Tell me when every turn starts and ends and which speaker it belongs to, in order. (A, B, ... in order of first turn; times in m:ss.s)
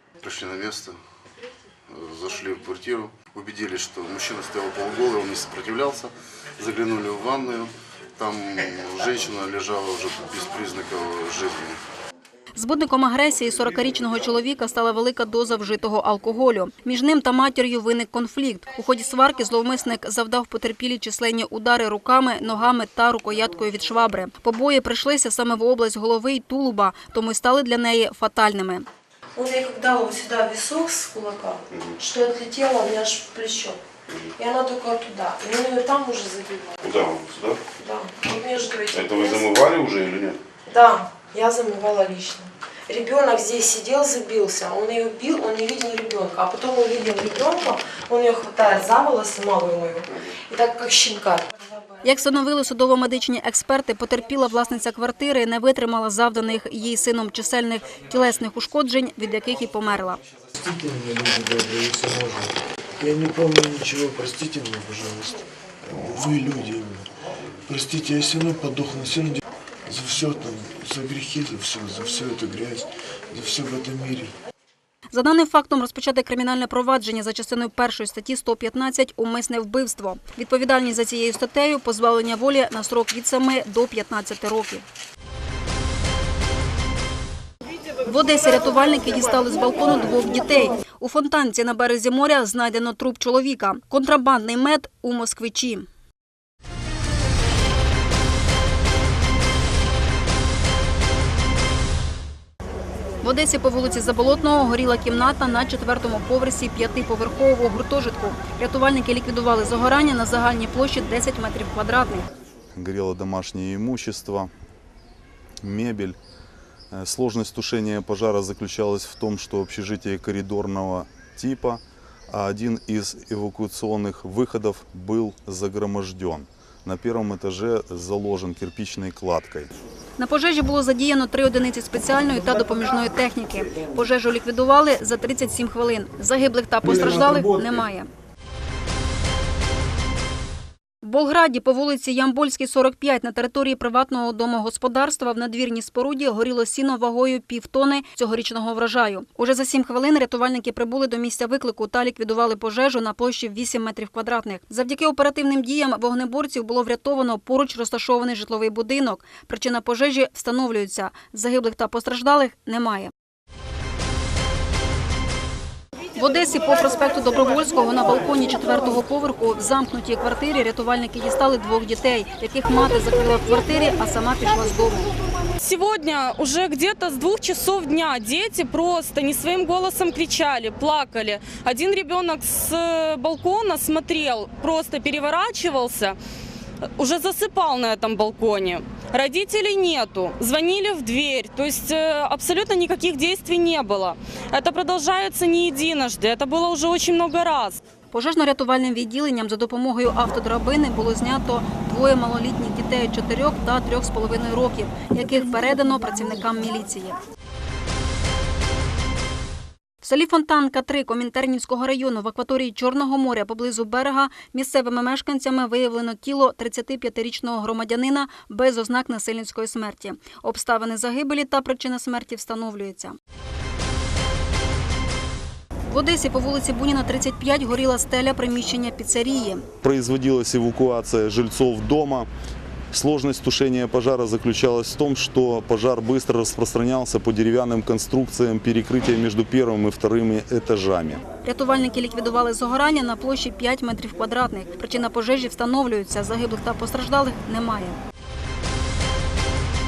0:00.2-0:01.0 A
0:01.9-0:11.8 A
0:12.6-0:28.9 B
0:29.4-0:33.8 C
0:34.4-0:37.0 C
0:36.8-0:37.6 A
0:37.8-0:39.6 C
0:38.9-0:40.4 A
0:40.7-0:52.0 C
0:52.0-1:00.2 B
1:00.6-1:07.1 D
1:07.7-1:14.3 D
1:15.1-1:24.8 B
1:28.0-1:35.9 B
1:43.2-1:52.3 B
1:52.8-1:54.5 E
1:55.6-1:56.2 E
1:56.9-2:09.7 E
2:10.2-2:18.1 B
2:21.0-2:43.1 B
2:46.2-2:55.1 B
2:55.6-3:06.2 F
3:07.0-3:17.8 F
3:18.1-3:27.2 B
3:30.0-3:43.2 B
3:45.9-3:49.6 B
3:49.8-3:52.3 E
3:52.9-4:01.2 E
4:01.4-4:08.0 B